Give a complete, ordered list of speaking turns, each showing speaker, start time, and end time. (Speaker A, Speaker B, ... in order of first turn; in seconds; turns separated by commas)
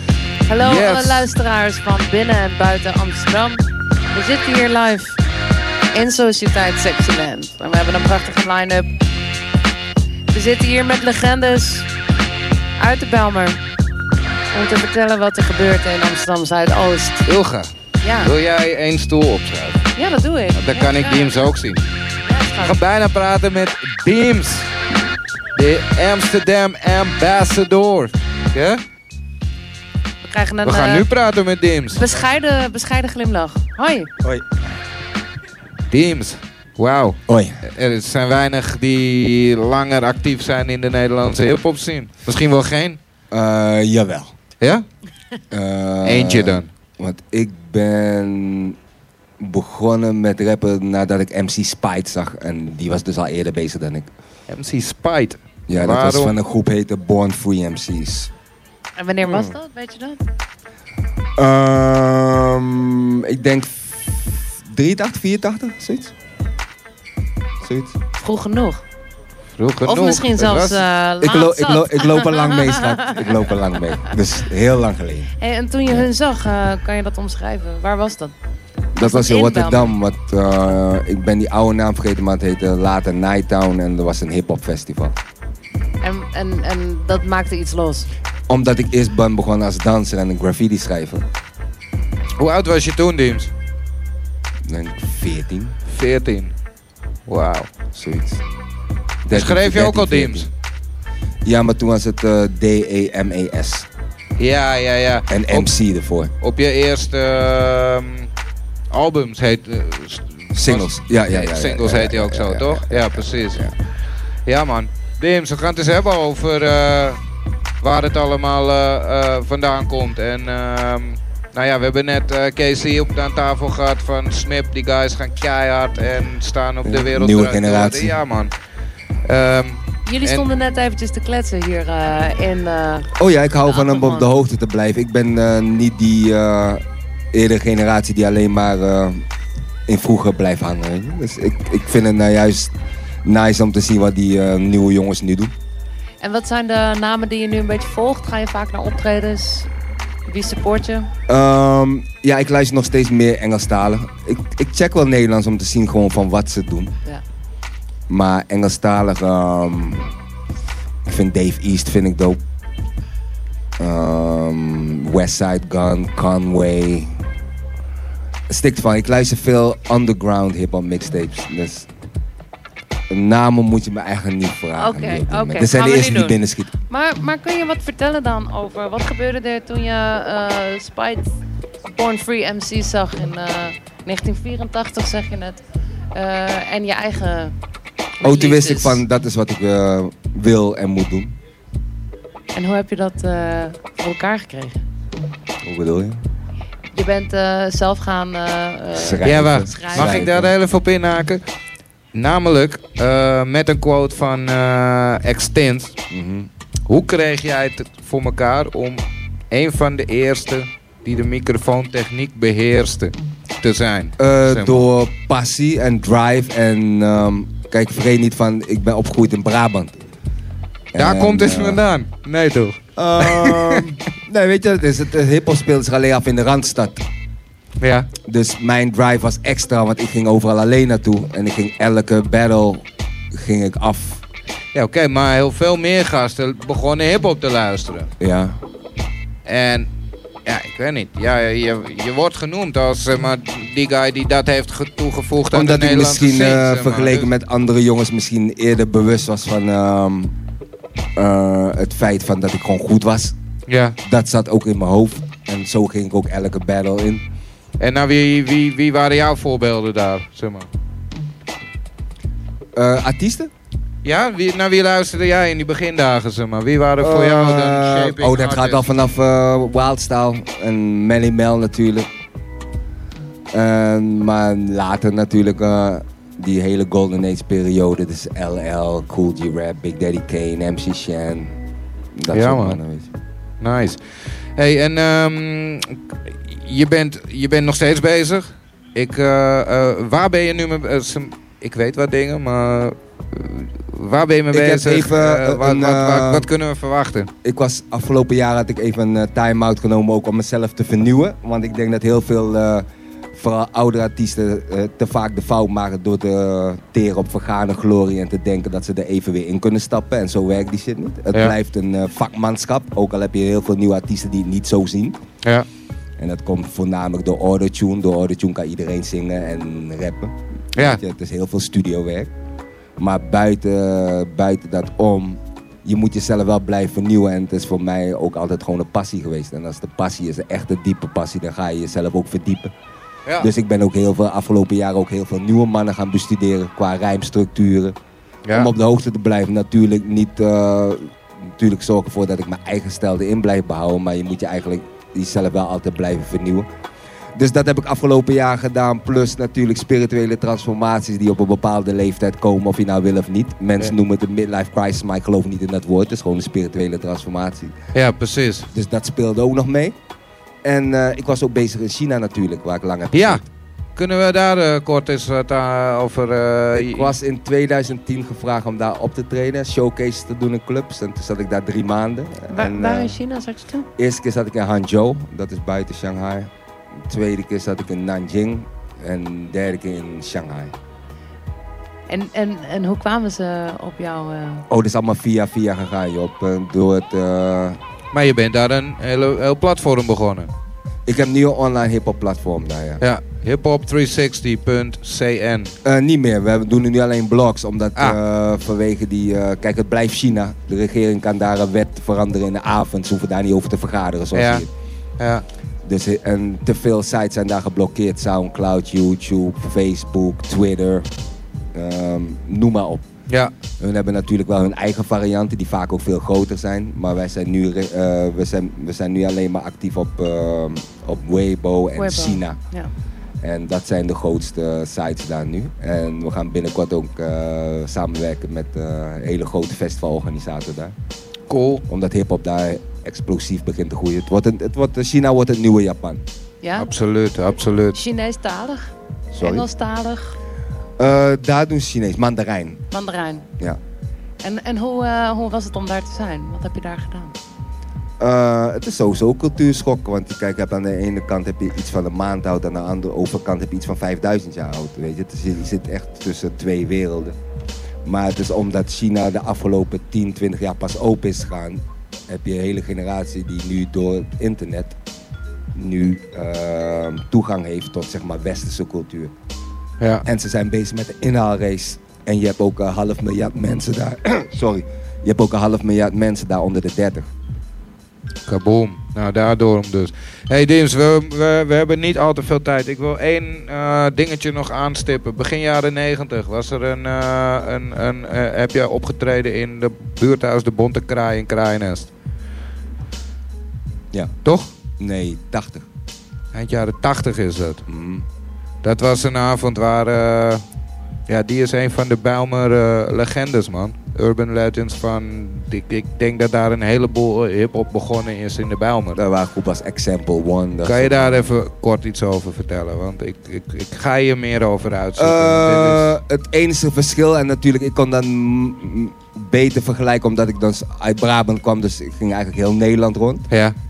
Speaker A: 0.5-5.2, Speaker B: 0.6-1.3, Speaker A: 5.9-8.9, Speaker A: 10.3-11.9, Speaker A: 12.8-13.6, Speaker A: 14.5-17.2, Speaker B: 17.2-19.9, Speaker A: 18.0-18.3, Speaker A: 19.9-21.4, Speaker B: 20.5-21.8, Speaker A: 22.2-22.8, Speaker B: 22.6-24.7, Speaker B: 25.6-28.8, Speaker A: 30.2-31.1, Speaker B: 30.6-32.1, Speaker A: 31.9-34.1, Speaker B: 35.9-43.0, Speaker C: 37.3-37.6, Speaker C: 43.3-44.3, Speaker B: 44.6-44.8, Speaker C: 45.5-48.8, Speaker B: 46.0-46.7, Speaker C: 49.4-54.1, Speaker B: 54.5-56.3, Speaker C: 55.7-58.3, Speaker A: 59.0-60.2, Speaker C: 59.2-59.5, Speaker C: 61.4-66.1, Speaker C: 67.6-68.0, Speaker A: 68.2-68.8, Speaker B: 69.6-70.8, Speaker A: 69.8-73.3, Speaker C: 71.2-75.3, Speaker A: 75.4-78.3, Speaker C: 78.9-85.1, Speaker A: 79.0-80.0, Speaker A: 86.0-88.1, Speaker C: 88.5-91.2, Speaker B: 92.4-93.5, Speaker C: 94.7-95.8, Speaker B: 95.9-96.5, Speaker B: 97.3-97.7, Speaker C: 97.9-98.4, Speaker C: 99.2-100.5, Speaker B: 99.3-100.5, Speaker C: 101.4-103.9, Speaker B: 104.4-105.7, Speaker C: 105.3-106.3, Speaker B: 106.4-108.3, Speaker B: 108.9-113.6, Speaker C: 110.5-113.7, Speaker B: 114.5-117.2, Speaker B: 117.8-128.5, Speaker C: 126.8-128.2, Speaker B: 129.2-130.5, Speaker A: 130.1-133.1, Speaker C: 133.2-136.8, Speaker A: 133.7-134.3, Speaker C: 137.3-139.2, Speaker C: 139.9-142.7, Speaker C: 143.2-145.5, Speaker A: 146.2-149.7, Speaker A: 150.3-151.1, Speaker C: 151.3-156.9, Speaker C: 158.1-160.1, Speaker C: 161.1-162.4, Speaker C: 163.8-167.1, Speaker C: 168.5-171.9, Speaker C: 173.1-176.7, Speaker A: 174.8-181.3, Speaker A: 181.8-185.6, Speaker A: 186.1-187.5, Speaker A: 188.2-189.0, Speaker C: 188.2-191.3, Speaker A: 192.5-194.8, Speaker C: 195.6-196.2, Speaker A: 196.9-200.3, Speaker C: 198.9-200.5, Speaker B: 199.2-201.4, Speaker B: 202.1-205.9, Speaker C: 206.1-206.5, Speaker B: 206.9-214.9, Speaker C: 214.2-219.9, Speaker C: 220.9-221.8, Speaker B: 220.9-223.8, Speaker C: 222.9-227.0, Speaker B: 227.8-228.1, Speaker C: 228.2-234.2, Speaker B: 234.7-238.1, Speaker C: 238.2-238.6, Speaker B: 239.4-239.9, Speaker B: 240.4-247.3, Speaker C: 245.5-250.3, Speaker C: 251.2-253.3, Speaker B: 253.7-253.9, Speaker C: 254.0-257.2, Speaker B: 257.8-260.7, Speaker C: 262.8-263.5, Speaker B: 264.0-268.9, Speaker C: 267.0-272.1, Speaker C: 273.5-281.5, Speaker C: 282.1-283.1, Speaker B: 282.3-282.8, Speaker B: 283.6-284.0, Speaker B: 284.6-297.3, Speaker C: 294.5-296.5, Speaker C: 297.4-315.2, Speaker C: 316.2-322.3, Speaker B: 320.8-321.0, Speaker C: 323.0-332.7, Speaker C: 333.4-337.9, Speaker B: 338.4-338.7, Speaker C: 338.5-346.6, Speaker C: 347.3-357.7, Speaker B: 357.9-358.7, Speaker C: 358.7-359.9, Speaker C: 360.6-363.5, Speaker B: 363.1-363.4, Speaker B: 363.9-367.1, Speaker C: 366.7-373.1, Speaker A: 372.5-373.9, Speaker C: 374.0-376.5, Speaker C: 377.1-380.7, Speaker A: 382.1-384.6, Speaker C: 384.7-387.8, Speaker B: 388.1-390.5, Speaker C: 391.1-393.0, Speaker B: 393.0-395.7, Speaker C: 395.8-404.7, Speaker B: 404.3-404.6, Speaker B: 405.2-405.4, Speaker C: 405.8-411.1, Speaker C: 411.7-413.0, Speaker C: 413.8-422.6, Speaker A: 421.9-422.9, Speaker C: 423.4-430.9, Speaker B: 431.5-431.8, Speaker C: 431.9-436.2, Speaker A: 436.6-436.9, Speaker B: 436.8-438.0, Speaker A: 437.9-440.4, Speaker C: 439.3-439.6, Speaker C: 441.0-442.8, Speaker A: 442.9-443.4, Speaker A: 444.4-447.3, Speaker C: 448.2-457.4, Speaker C: 458.0-464.9, Speaker C: 465.7-469.3, Speaker C: 470.2-477.3, Speaker B: 478.5-492.1, Speaker B: 494.4-494.8, Speaker C: 494.9-495.9, Speaker B: 496.5-497.8, Speaker C: 497.9-498.2, Speaker B: 498.8-500.6, Speaker B: 501.3-509.2, Speaker C: 509.1-511.6, Speaker B: 510.8-516.1, Speaker C: 515.2-523.5, Speaker B: 523.5-523.7